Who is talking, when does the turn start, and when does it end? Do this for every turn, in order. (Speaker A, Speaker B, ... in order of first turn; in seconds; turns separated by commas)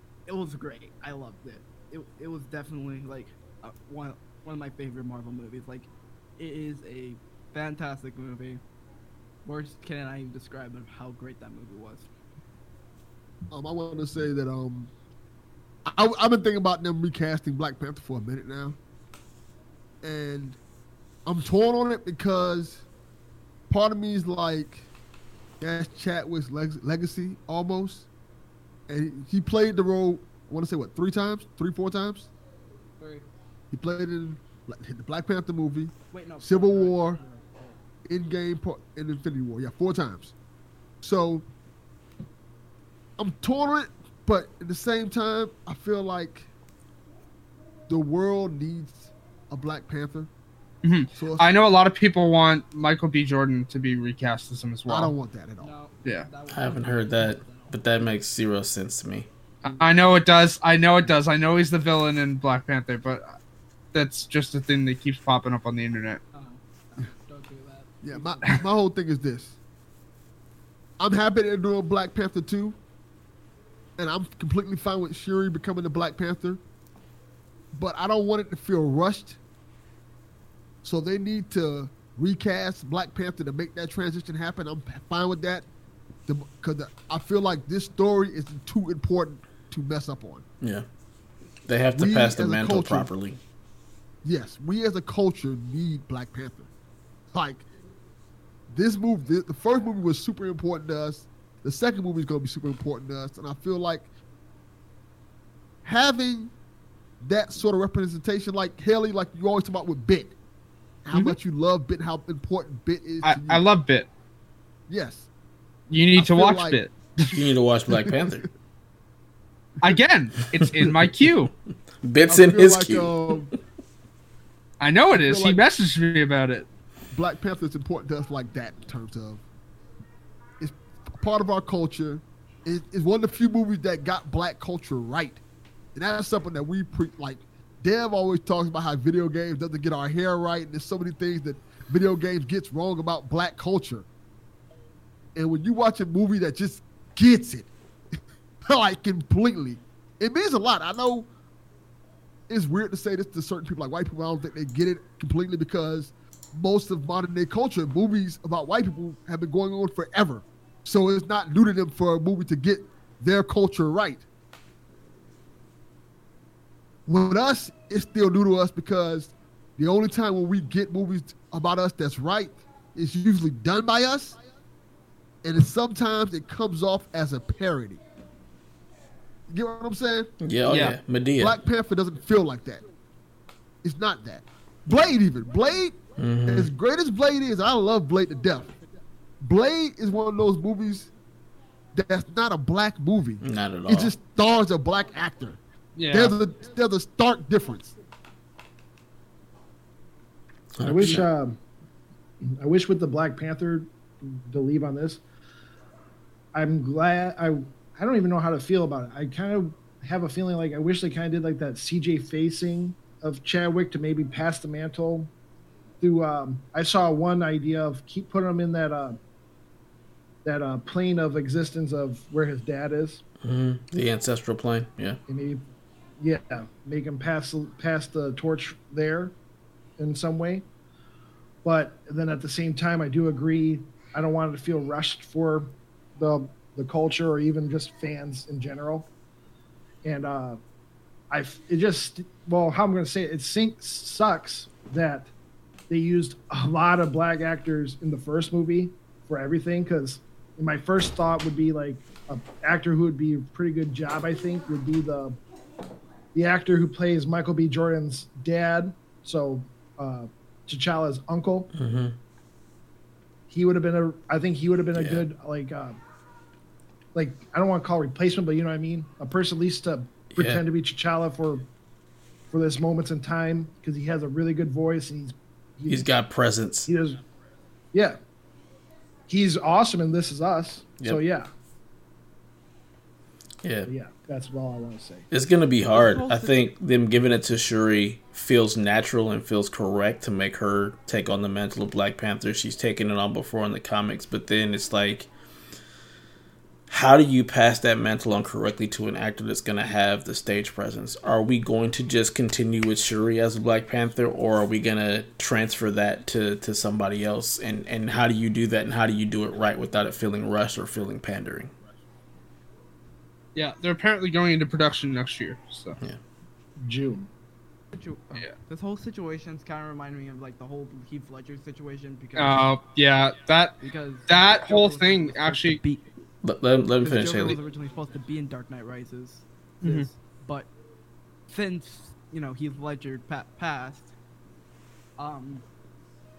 Speaker A: 0.3-8.6, Speaker A: 9.4-12.1, Speaker B: 13.5-14.9, Speaker B: 15.9-18.8, Speaker B: 20.0-20.6, Speaker B: 21.3-22.9, Speaker B: 23.7-24.9, Speaker B: 25.6-28.1, Speaker B: 28.9-32.3, Speaker A: 33.0-33.3, Speaker B: 33.7-37.2, Speaker A: 36.1-37.8, Speaker B: 38.0-40.3, Speaker B: 41.0-41.5, Speaker B: 43.2-46.5, Speaker B: 47.9-50.3, Speaker C: 50.8-55.1, Speaker B: 51.2-51.5, Speaker B: 54.9-55.7, Speaker A: 55.6-57.9, Speaker D: 56.5-59.3, Speaker C: 59.6-63.4, Speaker C: 63.9-66.2, Speaker A: 66.3-68.6, Speaker B: 68.0-69.6, Speaker B: 71.0-72.8, Speaker B: 74.0-76.6, Speaker B: 77.7-79.4, Speaker B: 80.8-85.7, Speaker B: 86.3-90.5, Speaker D: 91.7-93.4, Speaker B: 92.0-93.1, Speaker B: 94.2-96.7, Speaker B: 97.3-97.7, Speaker B: 98.7-104.1, Speaker B: 105.8-106.5, Speaker B: 107.2-110.4, Speaker B: 111.0-113.6, Speaker C: 111.1-111.4, Speaker C: 113.2-114.1, Speaker B: 114.9-115.3, Speaker C: 115.9-117.4, Speaker B: 116.2-116.8, Speaker D: 117.3-118.5, Speaker B: 118.0-118.5, Speaker C: 119.8-121.5, Speaker D: 120.6-121.0, Speaker D: 122.0-123.2, Speaker B: 122.3-123.5, Speaker C: 124.8-126.7, Speaker B: 125.1-125.6, Speaker B: 127.1-129.4, Speaker B: 130.6-135.4, Speaker B: 135.9-144.1, Speaker B: 145.3-151.3, Speaker B: 152.5-164.3, Speaker B: 167.1-174.4, Speaker B: 175.4-178.0, Speaker B: 179.5-180.3, Speaker D: 180.4-181.6, Speaker C: 180.7-181.0, Speaker B: 181.4-182.8, Speaker B: 183.8-188.8, Speaker D: 186.2-186.7, Speaker B: 189.4-191.1, Speaker B: 191.9-195.6, Speaker D: 193.4-194.2, Speaker C: 196.0-196.3, Speaker B: 196.1-198.0, Speaker D: 200.8-201.3, Speaker E: 200.8-201.6, Speaker E: 202.4-205.2, Speaker E: 206.5-215.3, Speaker E: 216.0-219.2, Speaker E: 220.4-223.2, Speaker D: 223.4-225.2, Speaker E: 225.3-225.7, Speaker E: 226.2-229.3, Speaker E: 230.0-230.7, Speaker E: 231.6-239.1, Speaker E: 240.0-240.6, Speaker E: 241.3-245.3, Speaker E: 245.9-255.4, Speaker E: 256.3-261.7, Speaker D: 261.7-262.2, Speaker E: 263.5-266.0, Speaker D: 264.9-265.3, Speaker E: 267.1-271.7, Speaker D: 270.3-270.6, Speaker E: 272.5-276.1, Speaker D: 275.9-276.9, Speaker E: 276.9-277.2, Speaker E: 277.9-278.2, Speaker E: 279.3-281.5, Speaker D: 283.6-283.9, Speaker E: 283.9-285.3, Speaker D: 285.3-295.3, Speaker A: 285.9-286.6, Speaker D: 296.9-311.7, Speaker C: 313.6-316.0, Speaker E: 316.8-317.3, Speaker A: 317.9-322.7, Speaker C: 322.4-323.8, Speaker A: 323.8-326.1, Speaker C: 324.3-325.8, Speaker D: 326.4-327.6, Speaker A: 327.0-330.7, Speaker C: 329.8-330.1, Speaker A: 331.5-334.1, Speaker A: 335.2-335.6